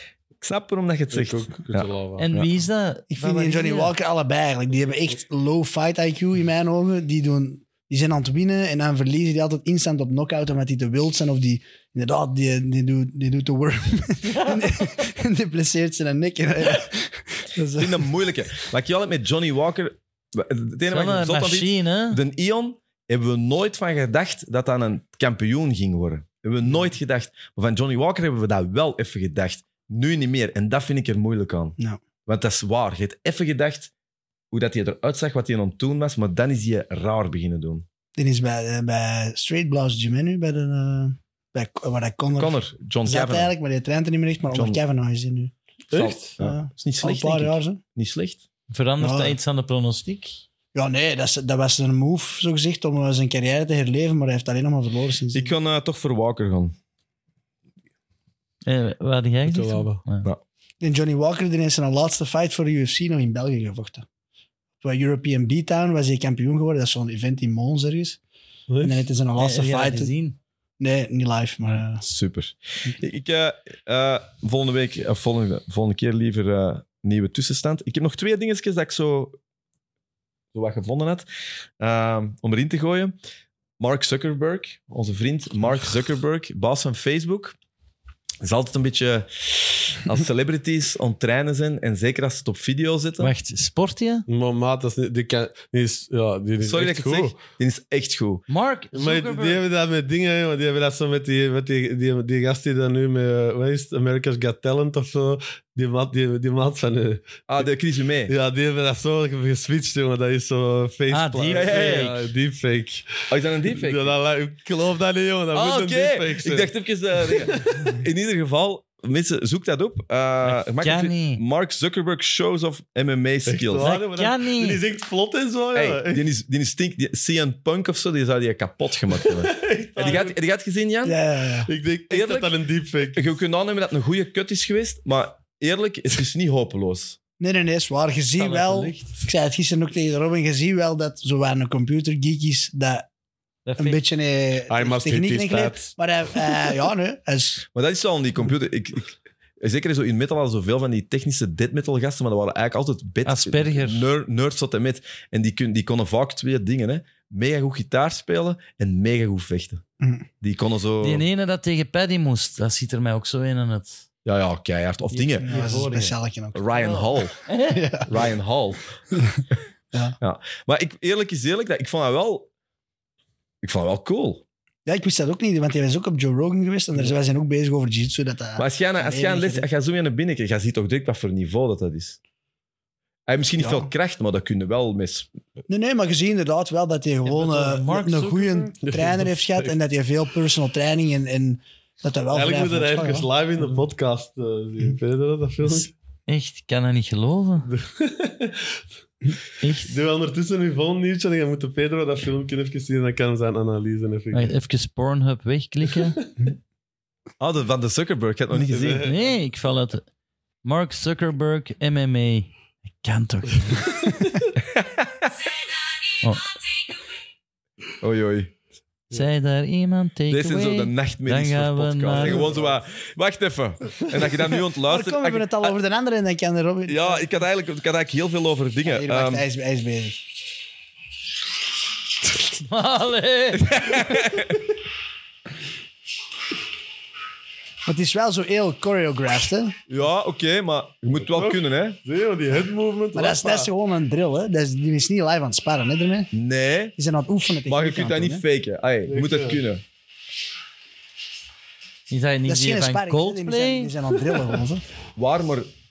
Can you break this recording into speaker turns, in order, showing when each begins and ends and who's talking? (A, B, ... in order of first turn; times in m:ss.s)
0:00.4-0:02.5 A
0:01.1-0:02.2 B
0:02.2-0:03.9 C
0:03.1-0:18.1 D
0:14.4-0:14.7 C
0:17.7-0:31.8 A
0:20.9-0:22.2 C
0:32.3-0:33.9 A
0:34.5-0:37.8 A
0:38.2-0:45.5 D
0:42.3-0:43.5 A
0:44.5-0:44.8 A
0:45.9-0:46.4 B
0:45.9-0:48.4 A
0:46.4-0:47.8 D
0:48.7-0:50.4 C
0:49.0-0:49.4 D
0:50.7-0:55.5 D
0:55.3-0:56.7 A
0:58.6-1:00.3 C
0:59.4-1:00.0 B
1:00.8-1:04.0 D
1:04.8-1:08.2 D
1:08.7-1:09.1 B
1:08.8-1:10.1 D
1:09.4-1:10.4 C
1:10.8-1:12.0 D
1:12.0-1:19.4 A
1:20.5-1:21.2 A
1:21.8-1:23.1 A
1:23.8-1:27.6 A
1:28.4-1:33.3 A
1:33.2-1:34.2 C
1:34.3-1:37.4 B
1:36.6-1:38.4 A
1:38.5-1:39.6 C
1:38.9-1:47.7 B
1:47.5-1:48.3 A
1:48.3-1:58.0 B
1:51.1-1:52.1 C
1:51.5-1:52.3 A
1:53.3-1:54.1 A
1:55.5-2:03.9 A
2:00.4-2:01.4 C
2:03.5-2:06.2 B
2:03.8-2:04.8 C
2:05.7-2:11.2 A
2:09.1-2:10.4 B
2:11.0-2:11.7 D
2:11.7-2:13.3 B
2:12.1-2:12.5 A
2:13.1-2:17.2 A
2:17.4-2:23.1 D
2:18.4-2:19.1 C
2:23.6-2:24.0 C
2:23.8-2:27.6 D
2:24.7-2:25.9 B
2:27.7-2:39.8 A
2:33.2-2:34.1 C
2:40.0-2:40.2 D
2:40.4-2:41.2 A
2:41.0-2:44.0 C
2:44.2-2:45.8 A
2:45.1-2:46.2 C
2:45.4-2:46.9 D
2:46.5-2:47.4 A
2:46.7-2:47.8 C
2:47.7-2:48.2 D
2:48.1-2:48.9 A
2:49.1-2:49.4 D
2:50.2-2:52.5 A
2:53.6-2:54.4 A
2:54.8-2:59.7 D
2:58.6-3:02.2 A
3:03.3-3:05.3 A
3:03.6-3:03.9 D
3:05.7-3:13.3 D
3:07.2-3:08.7 C
3:08.8-3:09.7 B
3:12.3-3:15.9 B
3:16.3-3:17.7 C
3:17.7-3:18.8 B
3:19.6-3:20.0 C
3:19.8-3:24.5 B
3:24.3-3:26.2 C
3:25.9-3:26.3 B
3:27.4-3:29.1 A
3:28.6-3:29.3 B
3:29.0-3:30.0 C
3:30.6-3:34.0 C
3:34.6-3:35.3 A
3:36.2-3:36.5 C
3:38.0-3:38.5 A
3:39.1-3:42.5 C
3:40.3-3:45.7 A
3:42.1-3:42.7 B
3:44.8-3:47.3 D
3:46.9-3:49.4 A
3:48.9-3:50.2 D
3:52.4-3:53.9 C
3:53.6-3:54.6 A
3:57.8-3:59.8 D
3:59.9-4:02.0 A
4:01.2-4:03.7 B
4:03.1-4:06.3 D
4:06.3-4:06.9 A
4:07.0-4:08.4 D
4:07.7-4:09.8 A
4:09.1-4:09.6 B
4:12.1-4:13.9 C
4:12.5-4:14.8 D
4:15.2-4:15.7 A